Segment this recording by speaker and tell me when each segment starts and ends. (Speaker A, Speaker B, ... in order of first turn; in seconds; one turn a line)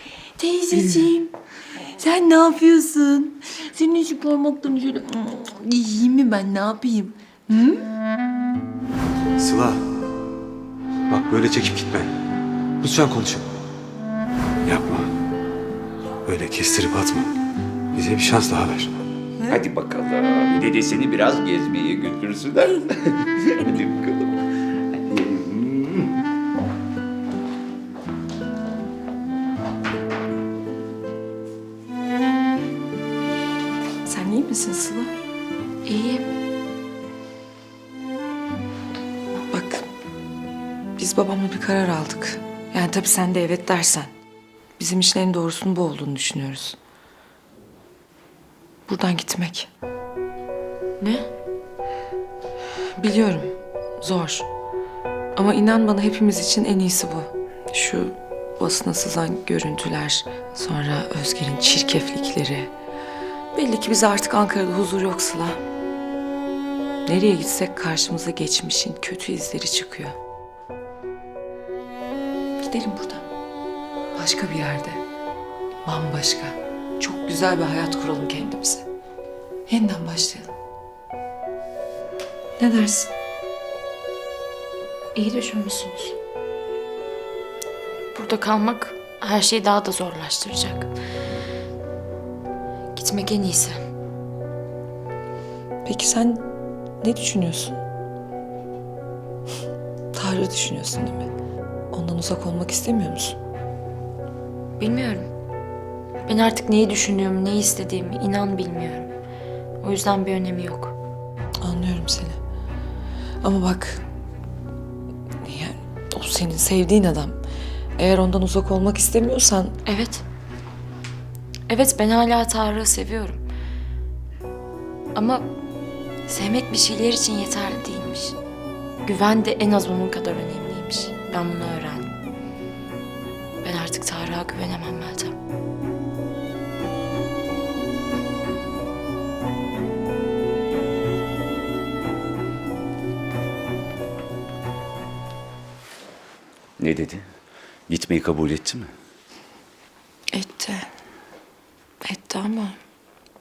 Speaker A: 0.4-1.3
Speaker A: 1.9-7.8
Speaker B: 9.4-9.8
Speaker B: 11.1-12.1
Speaker B: 12.8-13.6
Speaker B: 14.7-15.1
Speaker B: 16.3-17.3
Speaker B: 17.9-19.0
Speaker C: 19.5-26.1
Speaker A: 34.0-35.1
Speaker A: 35.9-36.2
Speaker A: 39.5-39.9
Speaker A: 41.0-44.1
Speaker A: 44.8-46.8
Speaker A: 48.9-49.7
Speaker D: 51.0-51.3
Speaker A: 53.0-54.5
Speaker A: 55.4-62.7
Speaker A: 63.5-65.6
Speaker A: 67.1-70.2
Speaker A: 72.6-73.3
Speaker A: 74.1-75.0
Speaker A: 75.8-78.9
Speaker A: 79.7-80.5
Speaker A: 82.6-83.1
Speaker D: 85.1-86.1
Speaker D: 88.1-90.9
Speaker D: 92.9-93.8
Speaker A: 95.8-96.5
Speaker A: 97.0-97.8
Speaker A: 100.1-101.3
Speaker A: 101.9-103.4
Speaker D: 104.8-105.3
Speaker D: 106.2-109.1
Speaker D: 109.8-111.0
Speaker A: 111.6-112.4
Speaker A: 113.4-114.0
Speaker A: 115.4-117.4
Speaker A: 118.0-119.8
Speaker D: 119.8-120.2
Speaker D: 121.7-123.4
Speaker D: 125.1-125.5
Speaker D: 126.3-128.4
Speaker D: 129.0-132.1
Speaker D: 133.6-135.4
Speaker C: 146.8-147.2
Speaker C: 147.9-148.9
Speaker A: 150.3-150.9
Speaker A: 152.0-152.8